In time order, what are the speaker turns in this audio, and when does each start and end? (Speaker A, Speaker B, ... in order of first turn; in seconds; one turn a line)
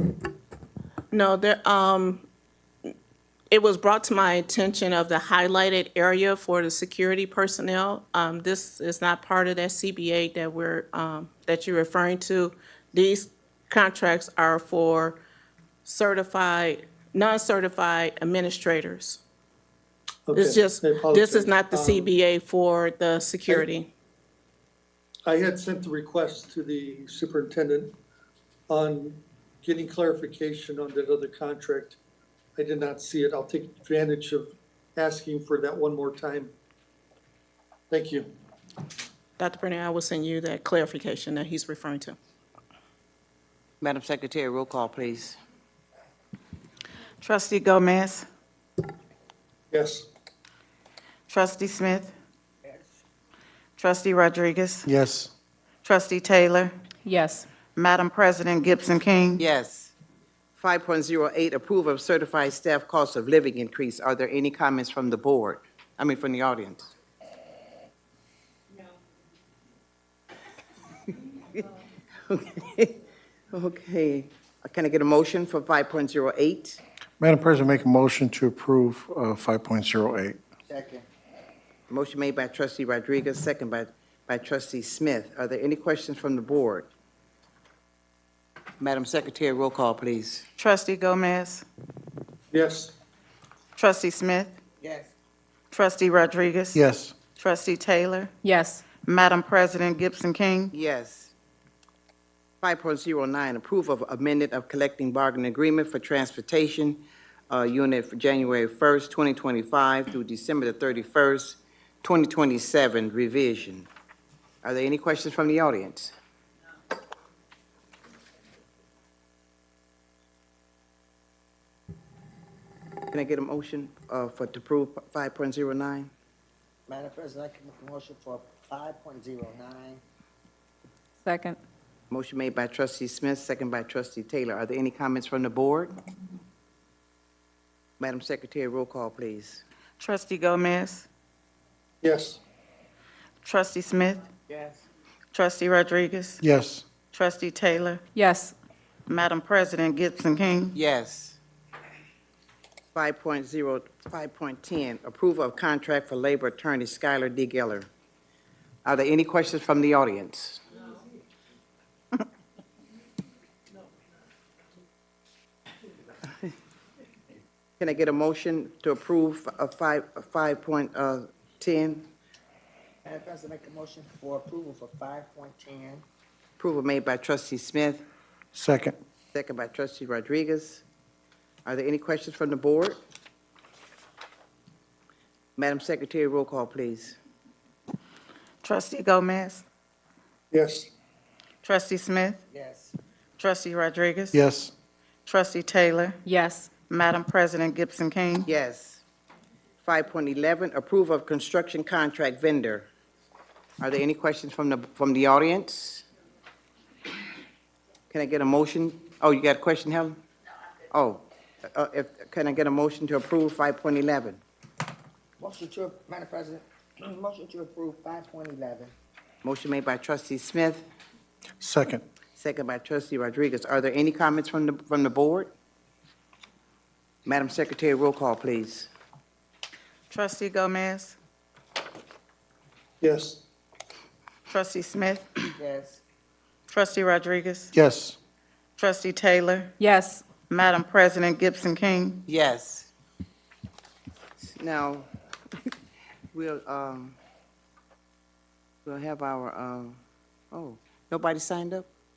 Speaker A: 1.1-2.2
Speaker A: 3.5-15.2
Speaker A: 15.8-19.2
Speaker B: 20.2-22.1
Speaker A: 20.3-23.9
Speaker B: 25.2-27.9
Speaker B: 28.7-32.0
Speaker B: 32.5-36.5
Speaker B: 37.9-38.3
Speaker A: 39.4-42.2
Speaker C: 43.8-45.4
Speaker D: 47.2-48.3
Speaker B: 49.7-50.1
Speaker D: 51.3-52.1
Speaker E: 52.6-53.0
Speaker D: 53.8-54.9
Speaker F: 54.9-55.3
Speaker D: 55.8-56.7
Speaker G: 57.0-57.5
Speaker D: 57.7-59.4
Speaker C: 59.4-59.9
Speaker C: 60.6-66.9
Speaker C: 72.3-72.9
Speaker C: 73.5-76.8
Speaker F: 77.2-80.4
Speaker E: 80.7-81.0
Speaker C: 81.9-86.9
Speaker C: 88.8-90.4
Speaker D: 90.6-91.6
Speaker B: 92.5-93.0
Speaker D: 93.8-94.5
Speaker E: 94.8-95.1
Speaker D: 95.7-96.8
Speaker F: 96.7-97.1
Speaker D: 97.3-98.3
Speaker G: 98.4-98.8
Speaker D: 99.0-100.7
Speaker C: 100.7-101.3
Speaker C: 102.6-113.9
Speaker C: 114.6-116.1
Speaker C: 123.1-126.1
Speaker E: 126.9-130.0
Speaker G: 131.2-131.6
Speaker C: 132.1-135.9
Speaker C: 138.0-139.6
Speaker D: 140.0-141.1
Speaker B: 142.0-142.4
Speaker D: 143.4-144.2
Speaker E: 144.5-144.8
Speaker D: 145.3-146.4
Speaker F: 146.4-146.8
Speaker D: 147.1-148.0
Speaker G: 148.1-148.5
Speaker D: 149.1-150.8
Speaker C: 150.8-151.4
Speaker C: 152.9-157.9
Speaker C: 158.8-160.6
Speaker C: 167.8-172.1
Speaker E: 173.0-176.0
Speaker C: 176.6-178.0
Speaker F: 178.5-178.9
Speaker C: 179.3-180.8
Speaker C: 181.7-183.0
Speaker C: 185.6-187.2
Speaker D: 188.6-189.6
Speaker B: 190.5-190.9
Speaker D: 191.6-192.4
Speaker E: 192.5-192.9
Speaker D: 193.4-194.4
Speaker F: 194.3-194.7
Speaker D: 195.2-196.2
Speaker G: 196.2-196.7
Speaker D: 196.9-198.5
Speaker C: 198.4-199.0
Speaker C: 199.8-202.9
Speaker C: 203.8-206.0
Speaker C: 208.1-210.2
Speaker C: 210.9-214.4
Speaker E: 215.4-218.9
Speaker C: 219.4-220.8
Speaker F: 221.6-222.0
Speaker C: 222.4-225.5
Speaker C: 227.2-228.9
Speaker D: 230.1-231.2
Speaker B: 233.0-233.4
Speaker D: 234.5-235.3
Speaker E: 235.6-236.0
Speaker D: 236.7-237.7
Speaker F: 237.7-238.2
Speaker D: 238.8-239.7
Speaker G: 239.8-240.2
Speaker D: 240.5-242.2
Speaker C: 242.3-242.9
Speaker C: 244.4-245.1
Speaker C: 246.3-247.2
Speaker C: 248.8-250.0
Speaker C: 250.5-251.9